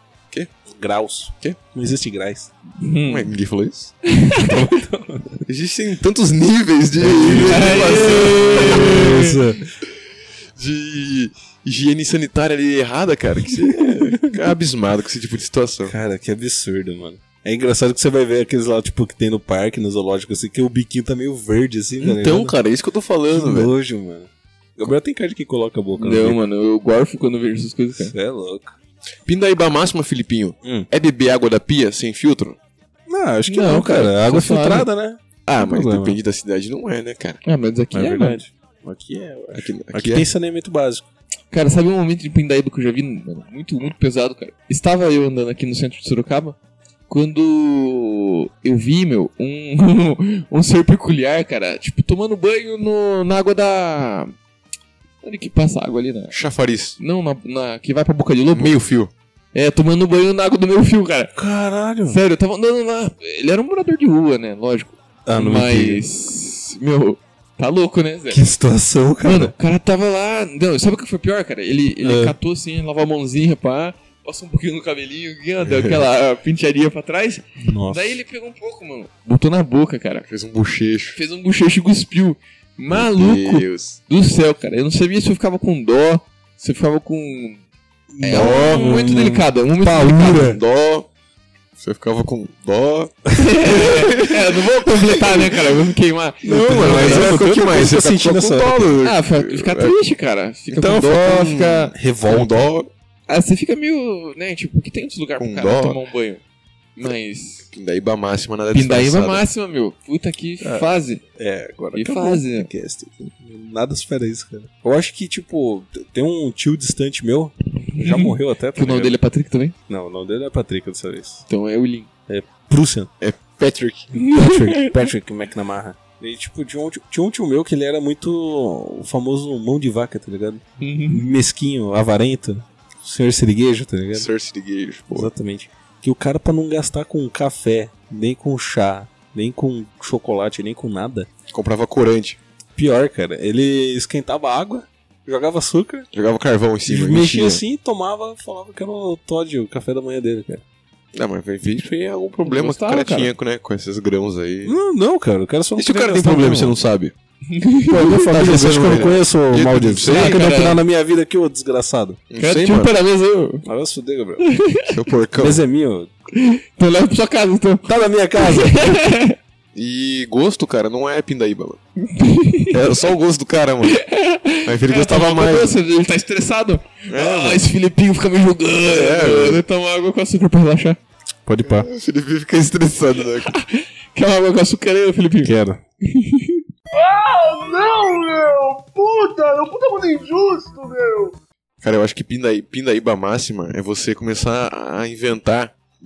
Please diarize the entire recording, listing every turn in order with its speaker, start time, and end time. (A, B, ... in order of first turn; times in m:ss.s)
0:00.7-0:02.5 A
0:02.8-0:03.3 B
0:03.0-0:03.9 C
0:04.1-0:04.5 B
0:04.4-0:05.4 A
0:05.4-0:09.1 C
0:07.0-0:09.7 A
0:07.4-0:09.4 B
0:10.6-0:15.9 C
0:13.6-0:14.2 A
0:15.8-0:22.6 A
0:22.0-0:23.7 C
0:23.3-0:26.4 A
0:26.0-0:28.2 B
0:28.0-0:28.8 A
0:29.3-0:32.6 C
0:30.6-0:30.9 A
0:33.1-0:36.2 A
0:33.5-0:34.9 B
0:35.5-0:37.4 C
0:37.4-0:38.4 B
0:37.9-0:41.0 A
0:39.5-0:40.3 C
0:41.5-0:46.6 B
0:47.1-0:54.3 B
0:55.2-0:56.4 B
0:56.3-0:57.0 C
0:57.0-0:58.7 B
0:58.5-0:59.1 C
0:59.5-1:01.4 B
1:01.4-1:02.2 A
1:02.1-1:08.5 B
1:05.3-1:06.0 A
1:08.3-1:09.5 A
1:09.2-1:20.3 B
1:12.0-1:12.4 A
1:15.6-1:16.0 C
1:17.6-1:18.2 A
1:20.3-1:21.2 C
1:21.2-1:27.6 B
1:22.9-1:24.0 C
1:28.1-1:30.6 A
1:28.2-1:30.5 B
1:28.3-1:29.1 C
1:30.4-1:31.1 C
1:31.8-1:35.5 C
1:33.4-1:37.4 B
1:36.4-1:39.0 A
1:36.5-1:40.0 C
1:39.0-1:41.9 B
1:40.7-1:42.9 C
1:41.9-1:42.7 A
1:43.3-1:46.4 B
1:45.4-1:46.0 C
1:47.0-1:47.7 B
1:47.7-1:49.4 C
1:48.7-1:51.2 B
1:50.6-1:59.2 A
1:52.0-1:52.7 B
1:57.9-1:59.8 B
1:59.9-2:01.4 A
2:01.5-2:02.1 B
2:02.3-2:03.1 A
2:03.2-2:04.1 C
2:04.2-2:14.3 A
2:04.2-2:05.1 B
2:10.8-2:11.2 B
2:14.2-2:15.3 C
2:15.1-2:21.3 A
2:21.5-2:22.4 C
2:22.8-2:26.1 A
2:26.1-2:27.6 C
2:26.9-2:30.6 A
2:31.1-2:34.8 C
2:32.4-2:33.3 B
2:34.6-2:36.8 A
2:35.8-2:37.1 C
2:37.5-2:38.2 B
2:37.9-2:42.2 A
2:38.2-2:40.4 C
2:40.1-2:40.8 B
2:42.3-2:42.9 C
2:42.4-2:43.7 B
2:43.6-2:44.4 A
2:44.4-2:44.9 B
2:44.9-2:45.6 C
2:45.4-2:46.1 A
2:46.4-2:49.4 B
2:47.8-2:49.0 A
2:49.8-2:51.8 C
2:52.0-2:52.8 B
2:52.7-2:54.0 C
2:53.8-3:01.0 B
2:54.6-2:55.8 C
2:57.1-2:57.7 C
2:58.9-2:59.6 C
3:01.5-3:03.6 C
3:01.6-3:01.9 A
3:03.4-3:06.6 B
3:05.4-3:05.8 A
3:06.9-3:11.4 D
3:11.8-3:15.8 C